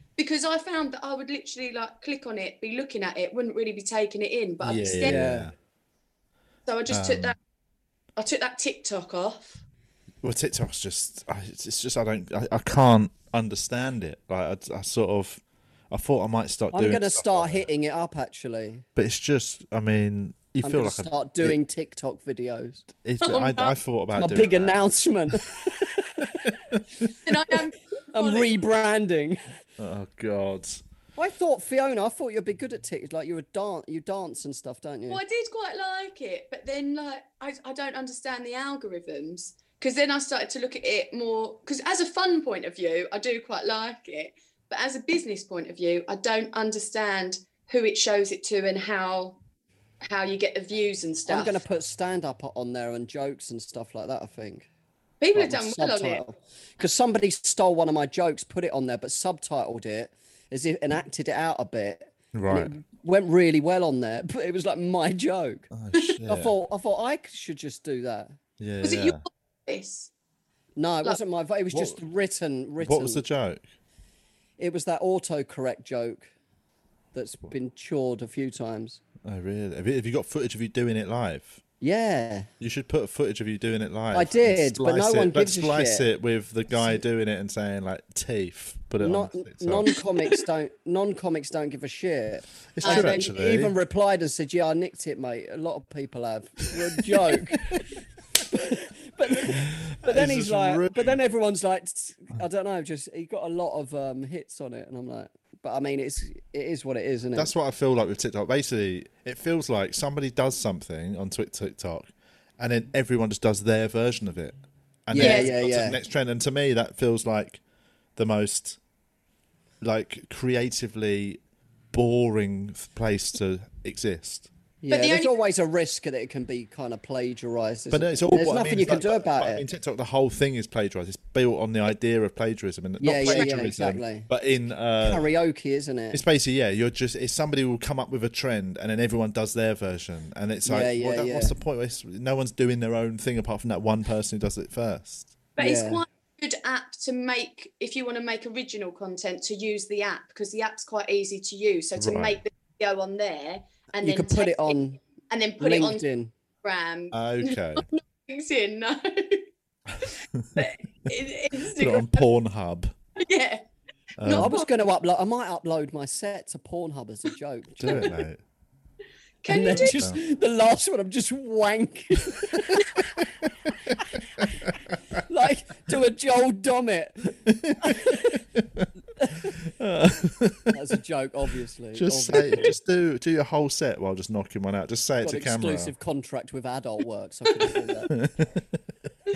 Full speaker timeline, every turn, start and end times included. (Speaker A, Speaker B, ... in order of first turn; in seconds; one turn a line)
Speaker A: 0.2-5.2
Speaker B: 4.6-5.5
Speaker C: 5.0-5.5
Speaker A: 6.7-7.4
Speaker B: 6.9-7.3
Speaker A: 8.2-9.6
Speaker B: 10.2-17.7
Speaker C: 16.7-18.8
Speaker B: 18.9-21.6
Speaker C: 20.6-22.8
Speaker B: 23.0-24.8
Speaker A: 23.2-23.7
Speaker C: 24.1-26.5
Speaker B: 26.4-27.1
Speaker A: 27.2-28.5
Speaker C: 28.1-29.4
Speaker B: 29.8-30.8
Speaker C: 31.2-35.2
Speaker A: 35.1-49.4
Speaker A: 50.0-51.6
Speaker C: 51.3-54.7
Speaker A: 55.2-56.2
Speaker C: 55.3-65.7
Speaker B: 62.3-62.7
Speaker B: 65.7-66.5
Speaker C: 66.3-68.4
Speaker B: 68.6-69.2
Speaker A: 68.8-70.1
Speaker C: 70.8-73.2
Speaker B: 71.7-72.0
Speaker B: 72.8-73.6
Speaker C: 74.6-76.3
Speaker C: 77.1-79.0
Speaker B: 79.2-81.6
Speaker C: 81.8-82.5
Speaker B: 82.6-89.9
Speaker C: 84.1-86.1
Speaker C: 89.0-97.8
Speaker B: 92.8-93.7
Speaker A: 92.8-93.3
Speaker B: 97.2-97.8
Speaker C: 98.5-107.5
Speaker B: 99.5-101.2
Speaker B: 107.3-117.6
Speaker C: 115.1-116.0
Speaker A: 115.2-115.5
Speaker B: 118.2-118.8
Speaker B: 119.8-121.4
Speaker B: 121.9-124.5
Speaker C: 124.8-129.6
Speaker A: 124.9-125.3
Speaker B: 127.9-135.2
Speaker C: 133.0-134.3
Speaker C: 135.0-136.2
Speaker B: 136.1-145.3
Speaker C: 140.7-141.5
Speaker A: 145.6-156.0
Speaker C: 145.6-146.0
Speaker B: 152.0-152.4
Speaker C: 154.0-155.0
Speaker C: 155.6-156.3
Speaker A: 156.6-159.5
Speaker B: 157.1-157.8
Speaker A: 160.0-162.2
Speaker B: 160.0-160.7
Speaker B: 161.8-162.9
Speaker A: 163.2-163.6
Speaker B: 164.2-164.5
Speaker A: 164.2-164.7
Speaker C: 164.3-168.1
Speaker B: 167.8-168.4
Speaker A: 169.4-170.1
Speaker C: 169.5-173.1
Speaker B: 169.7-170.2
Speaker B: 174.4-174.7
Speaker C: 174.4-178.4
Speaker B: 177.5-178.9
Speaker C: 179.2-179.5
Speaker B: 179.4-180.8
Speaker C: 180.7-182.7
Speaker B: 181.9-185.9
Speaker C: 185.2-188.1
Speaker B: 188.1-188.8